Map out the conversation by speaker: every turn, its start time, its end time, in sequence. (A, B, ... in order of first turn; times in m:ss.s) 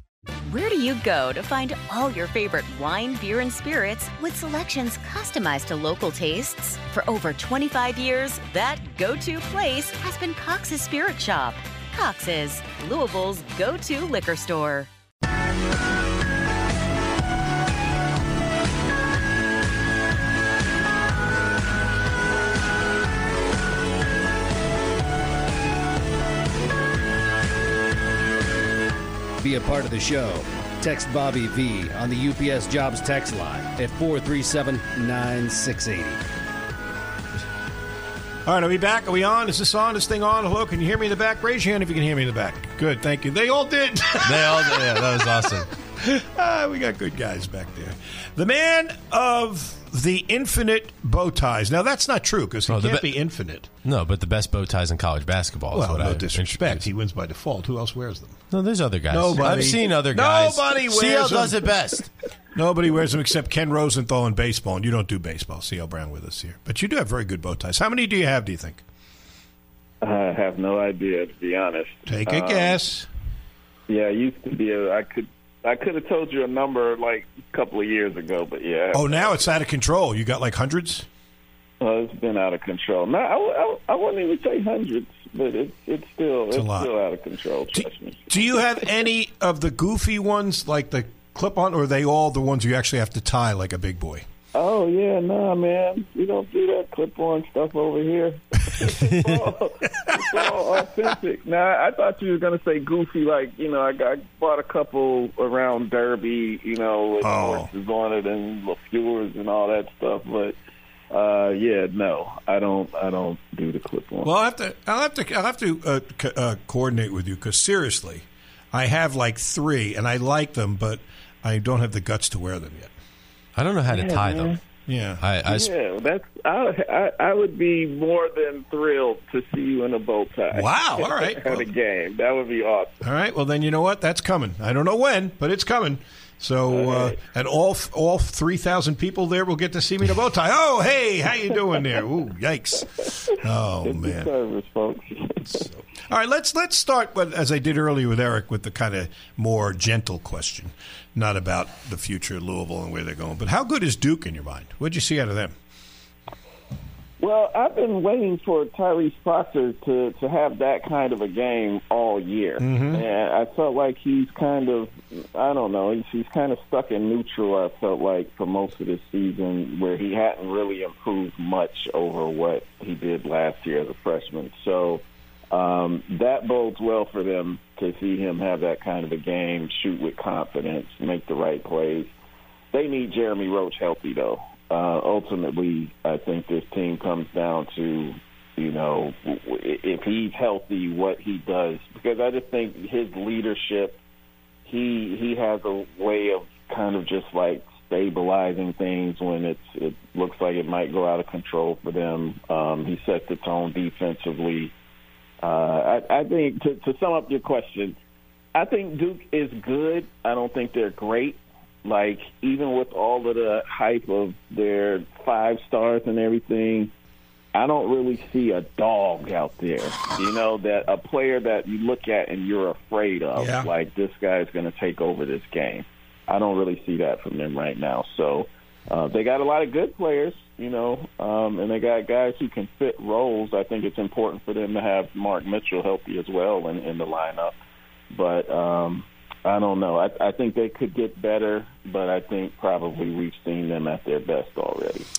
0:00.5-0:14.9 A
0:29.4-0:36.2 B
0:38.4-0:53.7 C
0:44.2-0:45.7 D
0:52.7-0:53.1 D
0:53.8-0:56.9 D
0:55.7-0:58.4 C
0:58.5-1:02.1 D
0:59.1-1:01.7 C
1:02.5-1:08.8 C
1:10.0-1:12.8 E
1:12.1-1:13.1 C
1:13.9-1:19.4 E
1:18.9-1:21.0 C
1:21.8-1:28.6 E
1:26.5-1:26.9 C
1:27.8-1:34.2 C
1:34.5-1:50.6 E
1:40.0-1:40.5 C
1:47.2-1:47.7 C
1:51.1-1:54.3 E
1:54.2-2:02.9 C
2:03.6-2:04.5 D
2:03.9-2:04.6 E
2:04.9-2:05.2 C
2:05.2-2:05.7 D
2:05.4-2:13.0 E
2:10.5-2:11.7 C
2:13.0-2:24.3 C
2:16.7-2:17.2 E
2:23.8-2:25.7 E
2:25.5-2:35.5 C
2:37.2-3:02.1 E
2:42.6-2:43.0 C
3:02.7-3:14.0 E
3:14.6-3:24.7 E
3:25.4-3:28.0 E
3:28.5-3:36.9 E
3:37.5-3:57.6 E
3:43.4-3:43.7 C
3:58.1-4:05.1 E